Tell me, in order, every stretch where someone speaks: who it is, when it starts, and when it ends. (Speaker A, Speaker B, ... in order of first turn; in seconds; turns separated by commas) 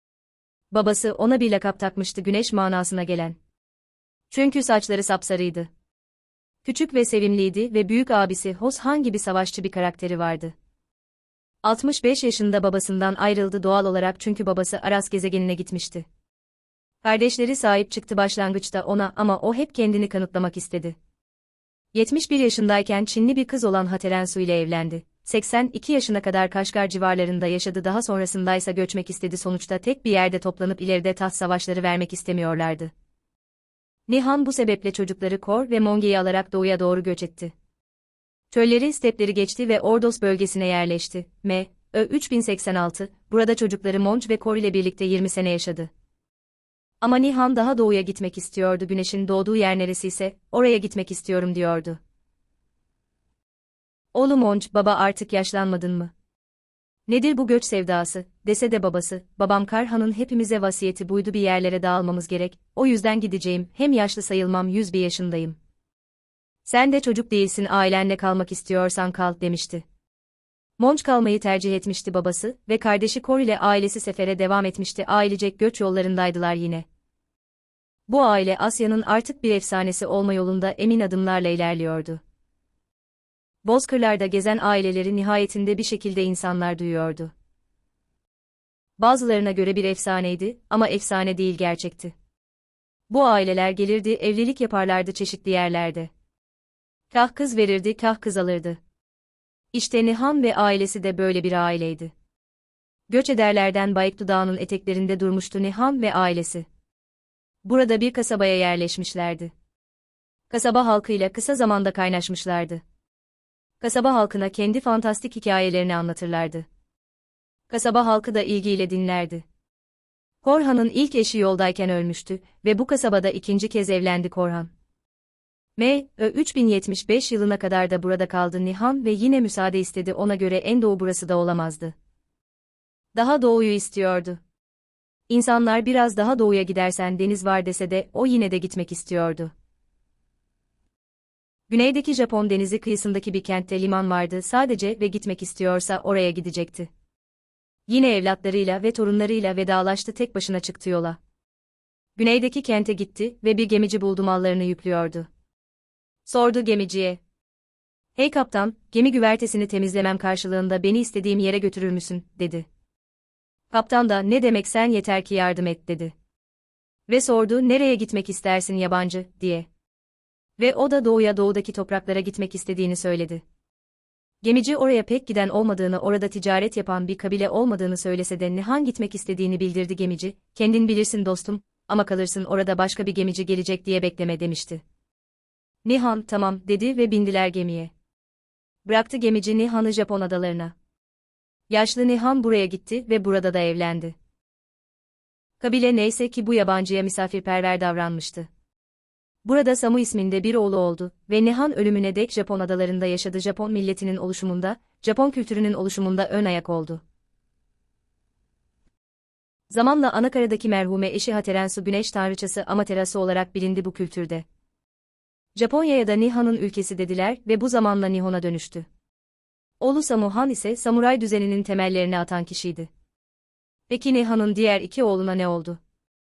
Speaker A: 0.7-3.4, Speaker A: 4.3-5.7, Speaker A: 6.6-10.5, Speaker A: 11.6-16.0, Speaker A: 17.0-20.9, Speaker A: 21.9-32.9, Speaker A: 34.1-37.5, Speaker A: 38.5-45.9, Speaker A: 47.0-52.0, Speaker A: 54.1-56.1, Speaker A: 57.1-65.5, Speaker A: 66.7-69.8, Speaker A: 70.8-76.8, Speaker A: 78.1-82.2, Speaker A: 83.6-87.3, Speaker A: 89.0-92.1, Speaker A: 93.1-96.1, Speaker A: 97.1-98.8, Speaker A: 99.7-102.1, Speaker A: 103.1-106.6, Speaker A: 107.6-109.5, Speaker A: 110.5-112.8, Speaker A: 113.8-116.7, Speaker A: 117.7-119.4, Speaker A: 120.4-124.7, Speaker A: 125.8-131.9, Speaker A: 133.1-134.4, Speaker A: 135.3-139.5, Speaker A: 141.7-146.9, Speaker A: 147.9-151.2, Speaker A: 152.2-155.3, Speaker A: 156.2-157.2, Speaker A: 158.2-162.7, Speaker A: 163.7-166.1, Speaker A: 167.1-169.7, Speaker A: 170.6-173.4, Speaker A: 174.4-184.8, Speaker A: 185.8-187.9, Speaker A: 188.8-190.7, Speaker A: 191.7-194.1, Speaker A: 195.6-198.5, Speaker A: 199.4-207.0, Speaker A: 209.7-214.4, Speaker A: 215.5-218.8, Speaker A: 219.8-222.9, Speaker A: 223.9-225.8